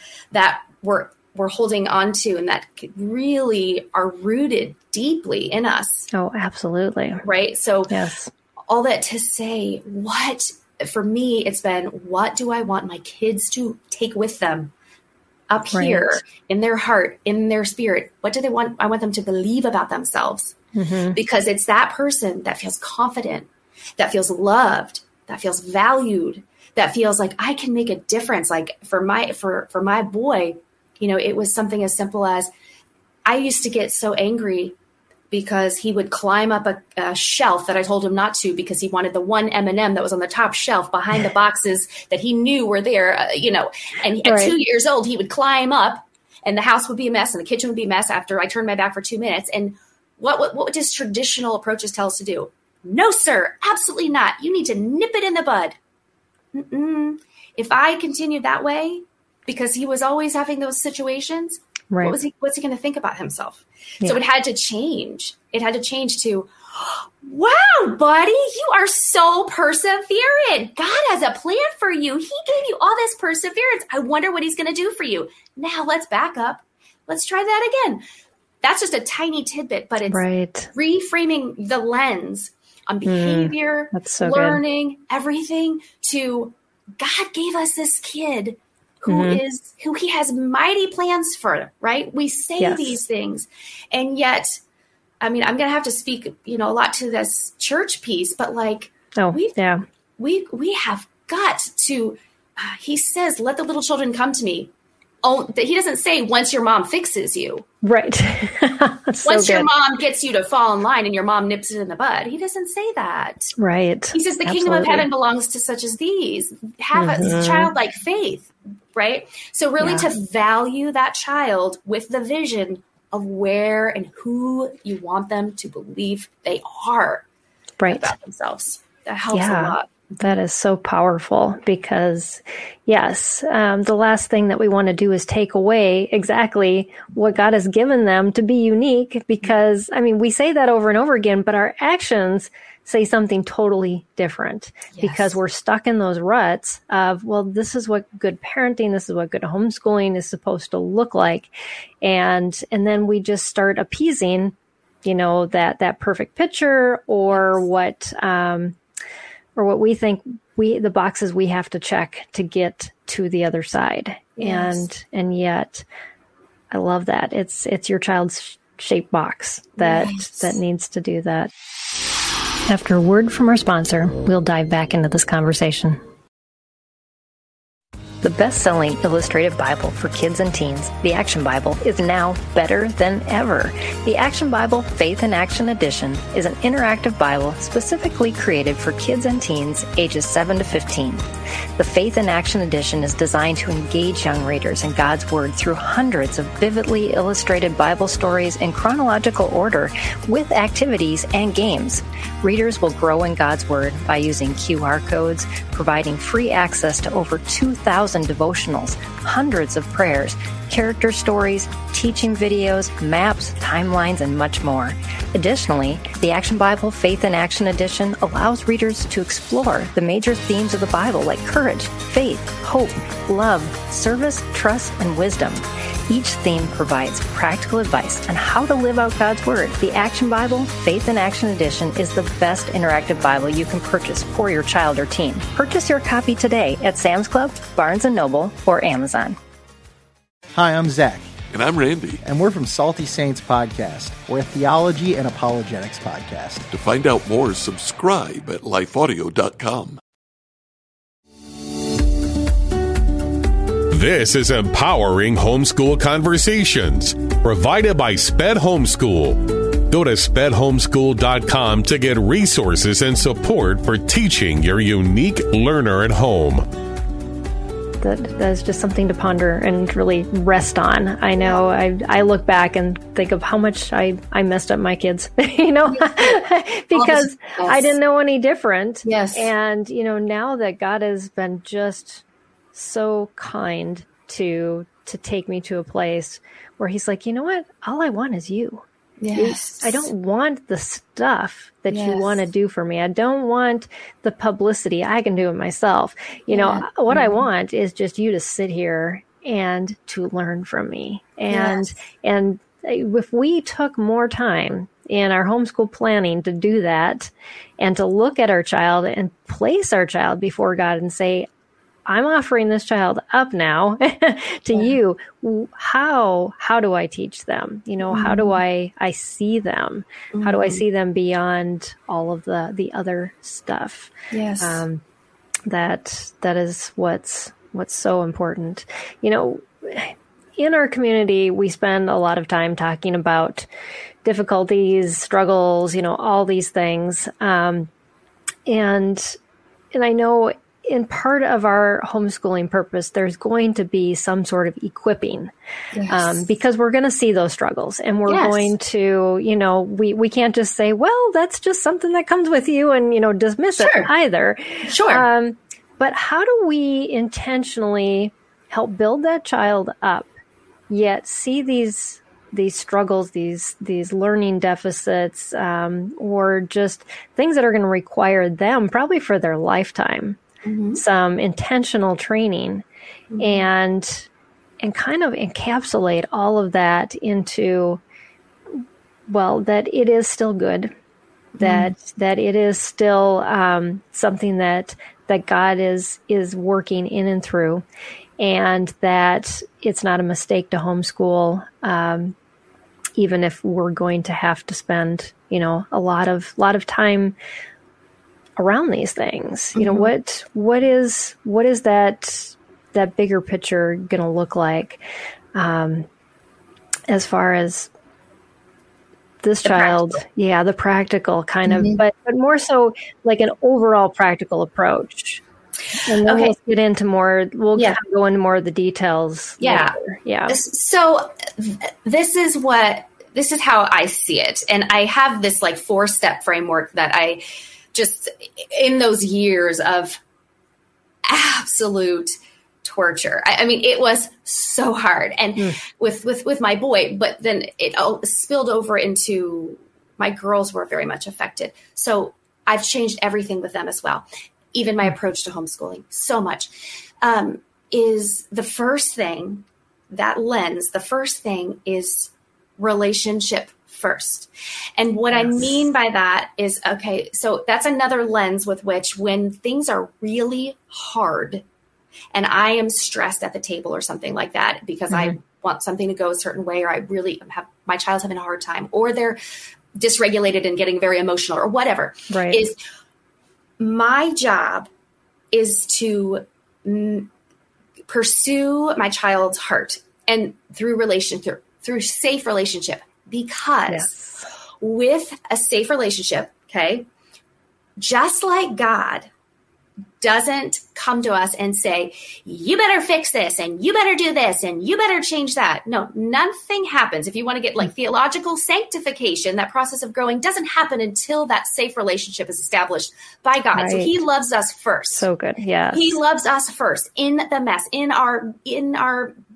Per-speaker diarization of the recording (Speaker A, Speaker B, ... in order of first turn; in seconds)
Speaker A: 0.3-6.1, 7.2-8.0, 8.7-14.7, 15.5-20.5, 21.1-32.5, 33.2-34.8, 35.3-55.7, 56.5-78.0, 78.6-94.6, 95.2-99.5, 100.2-104.7, 105.2-107.7, 109.2-113.5, 114.1-127.2, 127.9-129.9, 144.9-145.3, 157.3-157.6, 164.4-164.8, 169.8-170.5, 276.9-277.9, 279.0-279.5, 289.2-290.1, 291.9-292.3, 296.5-297.4, 301.5-301.9, 318.1-318.6, 320.3-320.8, 324.3-324.8, 345.9-346.4, 348.3-348.7, 353.8-354.1, 354.9-355.2, 370.6-371.0, 373.3-373.6, 381.6-381.9, 399.7-400.1, 409.6-410.2, 411.6-412.0, 415.9-416.5, 419.6-420.0, 420.5-427.4, 427.9-430.2, 431.2-446.7, 447.2-461.6, 462.3-469.4, 469.9-472.8, 473.8-474.9, 475.5-477.3, 478.1-484.2, 484.8-487.1, 488.0-489.3, 490.2-505.3, 505.9-509.3
Speaker B: 6.1-7.2, 7.9-8.3, 15.7-16.2, 20.7-21.2, 44.2-44.5, 61.9-62.2, 80.1-80.7, 83.0-84.6, 89.1-89.4, 92.6-93.0, 99.1-99.8, 107.8-109.7, 113.6-115.1, 117.0-117.7, 119.8-120.1, 127.8-128.1, 129.3-158.8, 159.6-165.8, 166.7-171.5, 172.7-176.0, 178.2-239.4, 268.0-288.8, 289.3-311.5, 312.1-325.0, 325.7-333.7, 334.2-337.9, 338.6-339.4, 339.9-345.5, 346.1-360.3, 360.9-370.4, 370.9-372.8, 373.4-374.3, 374.8-378.0, 379.3-380.9, 381.6-387.8, 388.4-392.4, 393.1-397.4, 398.6-405.0, 405.5-406.1, 407.1-407.9, 409.4-415.4, 416.1-420.6, 455.3-455.7, 472.3-472.6, 483.9-484.4, 503.7-504.1, 505.1-506.2
Speaker C: 240.5-241.4, 242.2-246.7
Speaker D: 241.5-242.2, 246.7-250.0
Speaker E: 253.9-266.6